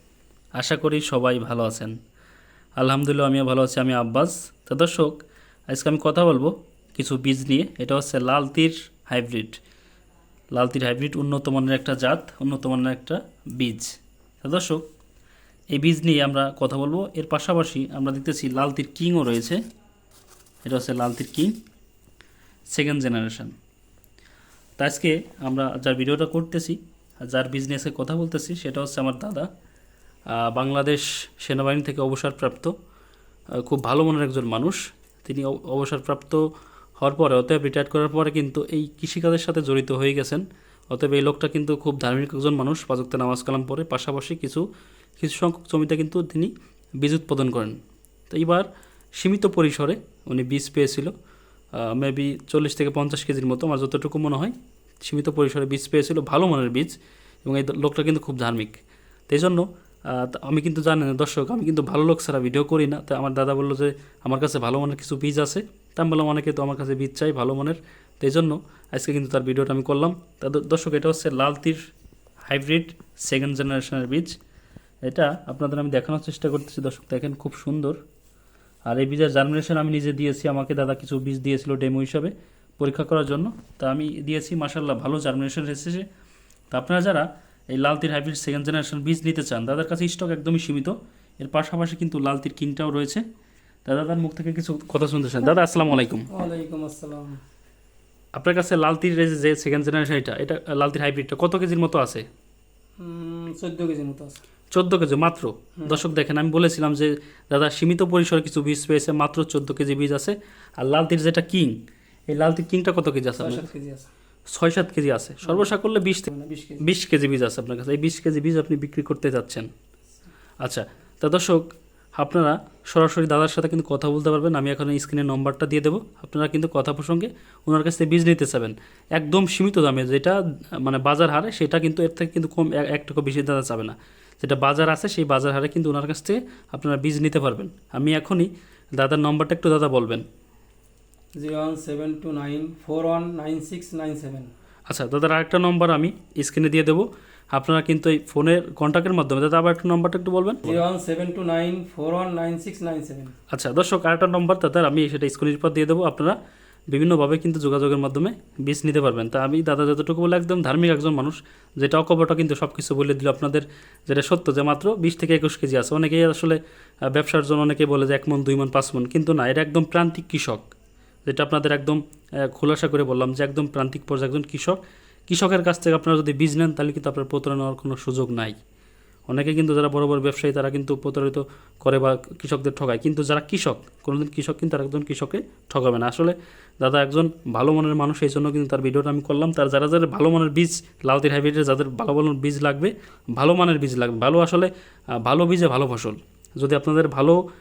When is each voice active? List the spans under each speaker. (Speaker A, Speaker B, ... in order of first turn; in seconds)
Speaker A: 0.6-1.9, 2.8-5.2, 5.7-9.6, 10.5-14.8, 15.7-19.6, 20.6-21.6, 22.7-23.5, 24.8-29.5, 30.3-32.7, 33.6-36.4, 37.0-44.6, 45.2-46.5, 47.0-47.8, 48.3-48.7, 49.2-51.1, 51.8-58.8, 59.3-71.8, 72.5-74.3, 75.1-78.0, 78.9-86.0, 86.7-93.2, 93.9-96.3, 98.4-102.3, 104.7-111.8, 112.3-113.7, 114.5-116.3, 116.8-119.7, 120.6-121.6, 122.2-140.2, 144.9-150.7, 153.5-156.3, 156.9-170.7, 171.3-178.6, 179.3-197.4
Speaker B: 96.3-97.4, 103.0-104.4, 113.4-114.1, 116.3-116.9, 141.4-144.5, 150.7-153.3